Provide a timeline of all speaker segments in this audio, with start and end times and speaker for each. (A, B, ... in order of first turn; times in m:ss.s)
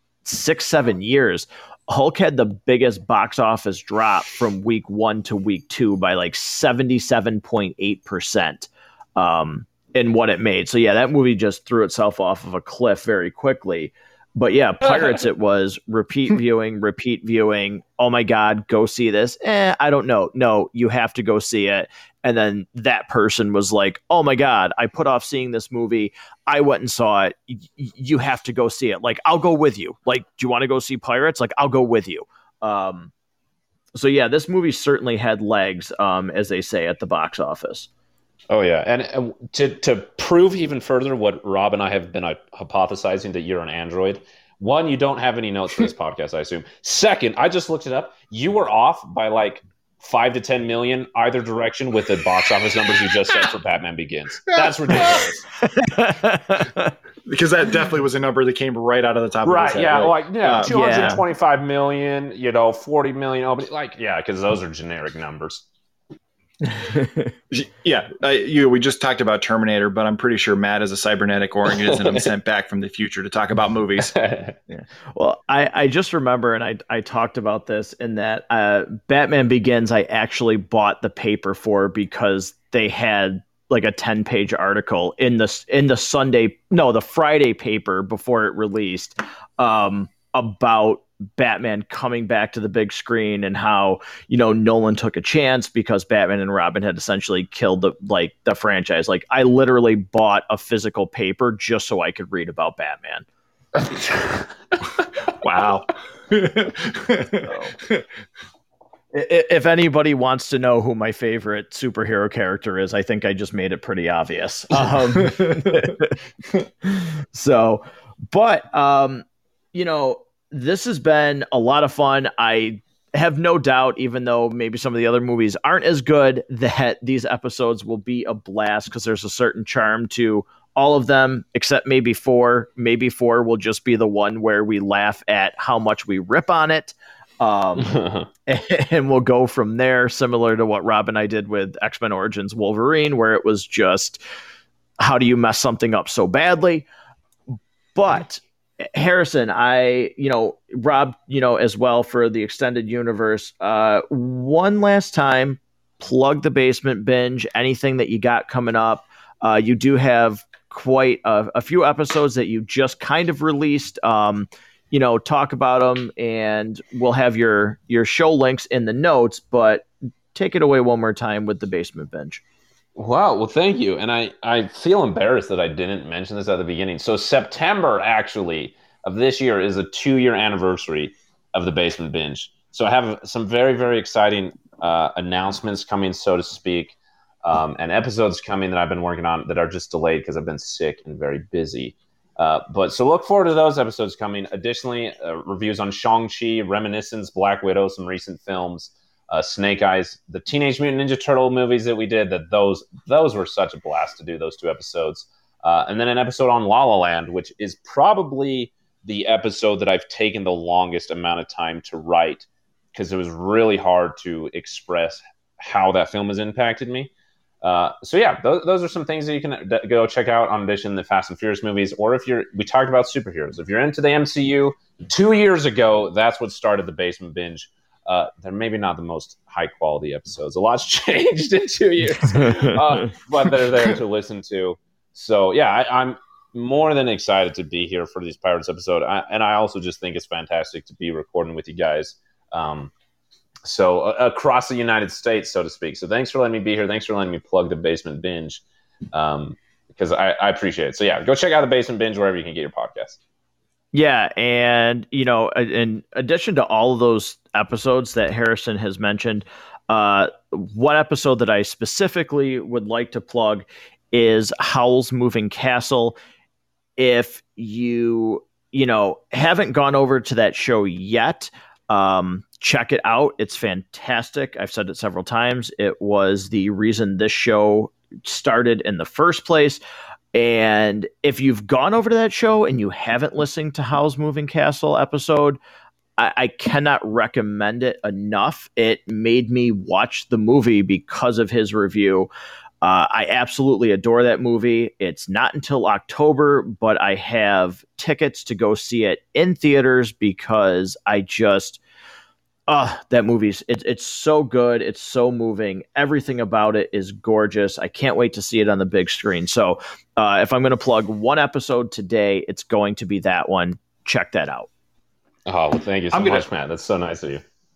0:00.2-0:33.1 A
0:33.9-0:37.9 A
0:38.5-0:55.4 B
0:54.6-0:55.2 C
0:55.6-0:56.9 A
0:57.3-1:01.2 C
0:59.4-1:05.6 B
1:00.6-1:01.2 A
1:06.6-1:07.3 A
1:07.5-1:14.1 C
1:11.8-1:12.3 B
1:14.0-1:14.6 B
1:14.7-1:43.3 A
1:43.8-1:44.5 B
1:45.4-1:48.0 C
1:47.5-1:47.7 A
1:49.1-1:56.2 A
1:55.2-1:55.9 C
1:56.8-2:24.2 A
2:17.8-2:18.3 B
2:25.0-2:26.9 A
2:28.0-2:52.4 A
2:53.0-3:37.1 B
3:37.6-4:02.9 B
3:52.5-3:52.7 A
4:03.6-4:08.6 B
4:09.1-4:13.2 B
4:13.9-4:26.2 A
4:27.0-4:39.8 A
4:40.3-4:45.6 A
4:46.2-4:52.3 A
4:52.8-5:01.8 A
5:02.7-5:14.7 A
5:15.5-5:17.4 B
5:16.1-5:16.5 C